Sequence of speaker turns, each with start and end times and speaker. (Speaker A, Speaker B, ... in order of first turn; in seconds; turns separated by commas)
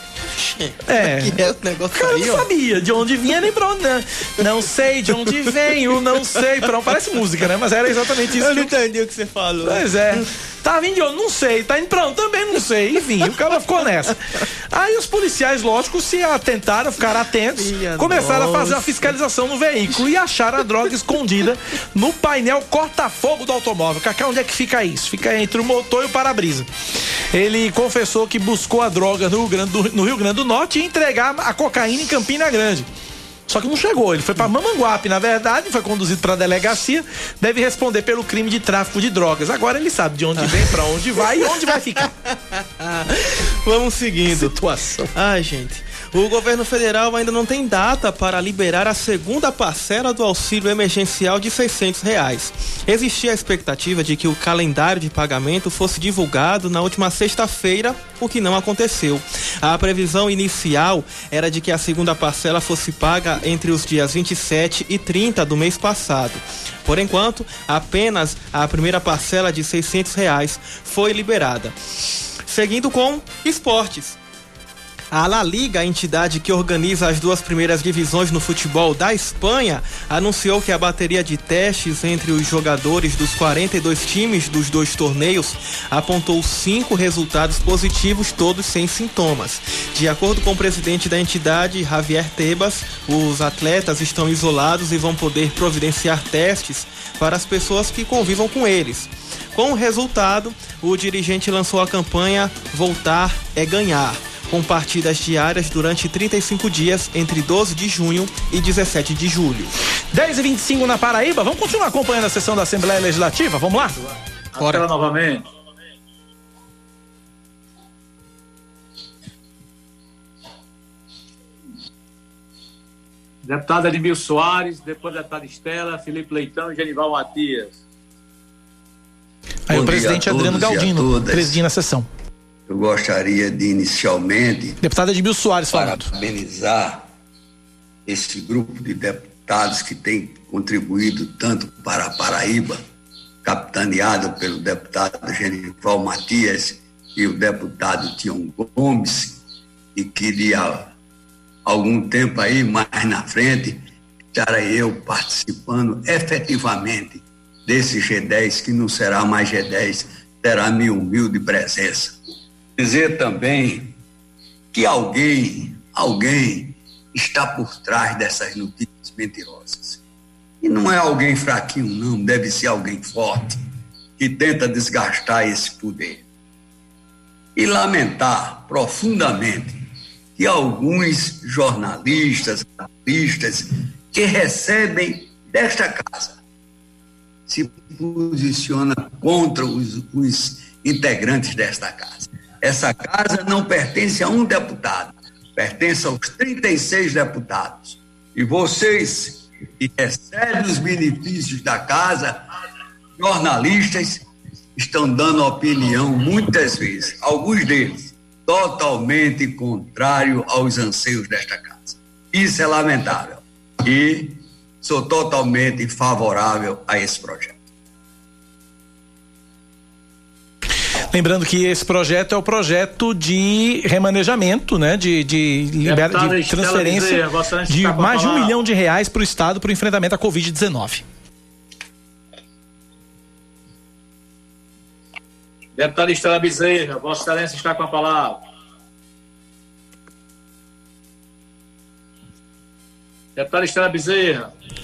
Speaker A: 0.3-2.5, Speaker B: 0.8-1.4, Speaker B: 1.9-8.7, Speaker A: 5.1-5.5, Speaker A: 8.4-10.2, Speaker B: 9.6-14.2, Speaker B: 14.7-26.7, Speaker A: 17.6-19.1, Speaker B: 27.3-32.9, Speaker B: 33.5-42.1, Speaker A: 40.4-40.7, Speaker A: 42.8-44.6, Speaker B: 44.3-45.1, Speaker A: 45.1-71.7, Speaker A: 72.5-74.2, Speaker A: 75.1-109.7, Speaker B: 110.1-114.0, Speaker C: 114.5-115.4, Speaker A: 114.6-114.9, Speaker C: 123.4-127.8, Speaker B: 129.7-132.1, Speaker D: 129.7-131.6, Speaker D: 132.7-134.8, Speaker B: 134.8-136.1, Speaker D: 135.7-137.0, Speaker D: 138.1-142.8, Speaker D: 143.4-149.4, Speaker D: 149.9-150.9, Speaker D: 151.7-162.2, Speaker D: 162.8-163.9, Speaker D: 164.7-170.0, Speaker D: 170.6-173.6, Speaker D: 174.2-176.2, Speaker D: 177.6-179.8, Speaker D: 180.4-186.4, Speaker D: 187.5-202.4, Speaker D: 203.2-204.2, Speaker D: 204.8-217.6, Speaker B: 221.1-231.0, Speaker C: 225.8-228.5, Speaker C: 235.8-238.4, Speaker C: 243.4-244.5